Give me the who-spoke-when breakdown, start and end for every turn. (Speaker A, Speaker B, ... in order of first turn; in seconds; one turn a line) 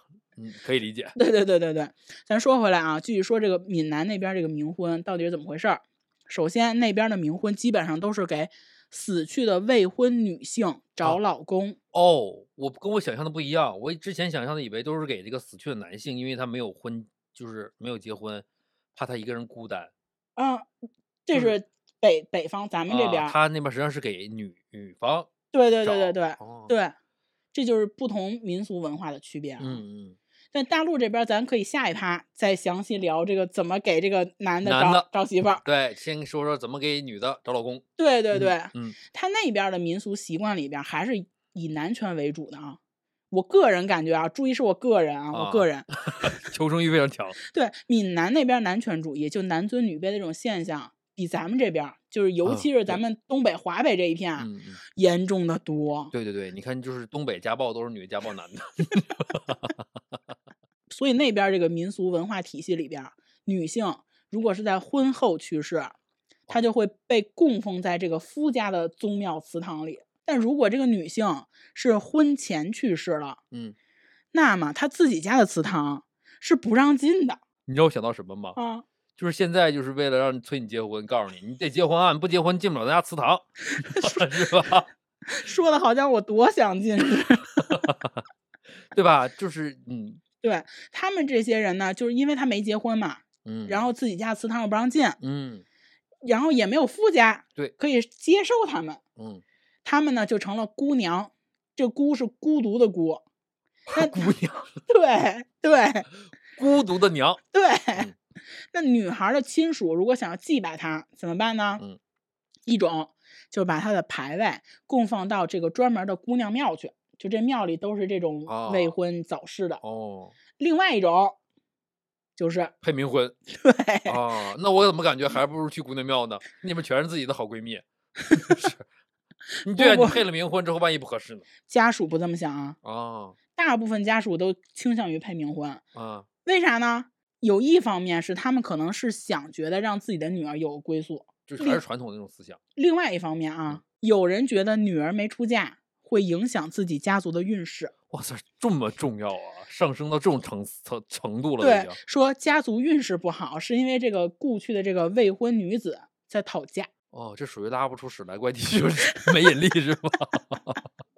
Speaker A: 0.3-1.1
Speaker B: 1.1-11.8
Speaker A: 11.9-19.9
Speaker B: 20.4-20.7
Speaker B: 21.2-23.3
Speaker A: 22.9-25.3
Speaker B: 25.5-26.9
Speaker A: 25.8-26.7
Speaker B: 27.5-29.8
Speaker A: 29.6-30.2
Speaker B: 30.5-35.6
Speaker A: 34.6-35.1
Speaker A: 35.6-39.0
Speaker B: 38.0-42.8
Speaker B: 43.3-46.4
Speaker A: 45.3-47.4
Speaker B: 47.4-56.1
Speaker A: 52.4-53.0
Speaker A: 54.4-54.8
Speaker A: 56.1-59.8
Speaker B: 60.9-65.9
Speaker B: 66.5-73.4
Speaker B: 74.3-77.4
Speaker A: 77.7-78.6
Speaker B: 78.5-78.8
Speaker A: 79.2-84.9
Speaker B: 83.8-84.4
Speaker B: 85.2-87.8
Speaker A: 87.6-88.2
Speaker A: 88.9-90.2
Speaker B: 90.4-95.2
Speaker A: 93.4-93.9
Speaker A: 95.2-95.6
Speaker B: 96.2-99.0
Speaker A: 99.2-99.4
Speaker B: 99.8-103.2
Speaker A: 103.9-104.8
Speaker B: 103.9-104.3
Speaker B: 104.9-106.1
Speaker A: 106.5-107.4
Speaker B: 107.5-108.1
Speaker B: 108.7-111.8
Speaker B: 112.7-119.8
Speaker A: 118.5-119.0
Speaker A: 119.8-120.3
Speaker B: 120.6-121.4
Speaker B: 122.4-122.7
Speaker A: 122.8-123.3
Speaker B: 123.5-124.2
Speaker A: 124.0-128.8
Speaker B: 129.6-130.2
Speaker A: 129.6-131.4
Speaker B: 131.7-132.8
Speaker A: 132.8-133.4
Speaker B: 133.5-135.8
Speaker A: 135.9-136.3
Speaker B: 136.4-141.8
Speaker A: 141.5-142.6
Speaker B: 142.8-147.9
Speaker A: 148.1-152.0
Speaker B: 151.6-156.9
Speaker A: 157.1-160.8